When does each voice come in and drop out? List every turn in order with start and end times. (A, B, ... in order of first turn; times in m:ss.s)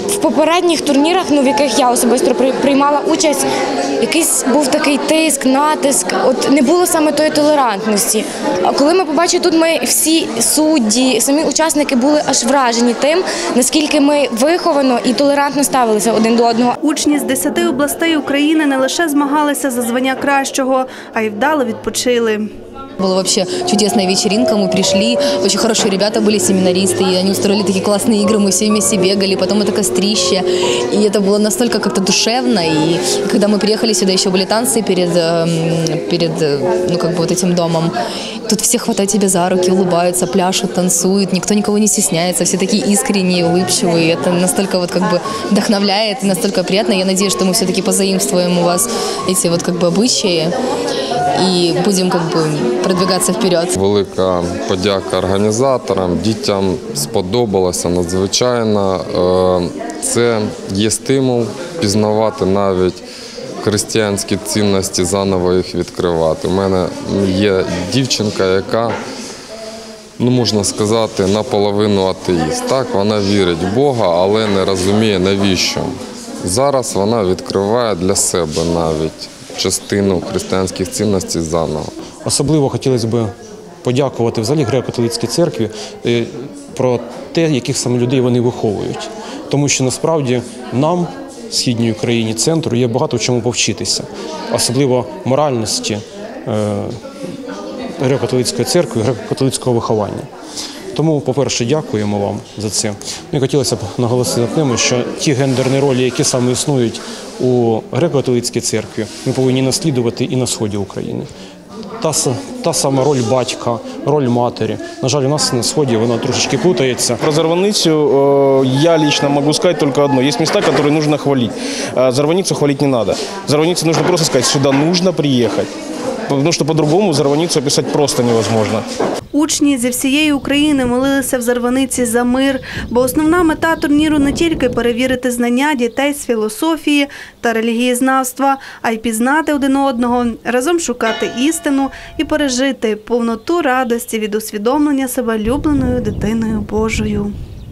0:00.1-0:03.5 A
0:04.0-0:16.8 A
0:16.8-0:22.5 B
0:23.0-0:37.9 C
0:38.5-0:50.5 C
0:51.4-0:53.7 C
0:53.8-1:03.0 D
1:03.6-1:09.0 D
1:10.2-1:15.9 D
1:16.4-1:21.9 D
1:22.2-1:23.3 E
1:23.8-1:37.0 E
1:38.0-1:40.3 E
1:40.9-1:51.3 E
1:52.0-1:57.2 E
1:57.2-2:05.7 F
2:06.3-2:08.9 F
2:09.3-2:27.3 B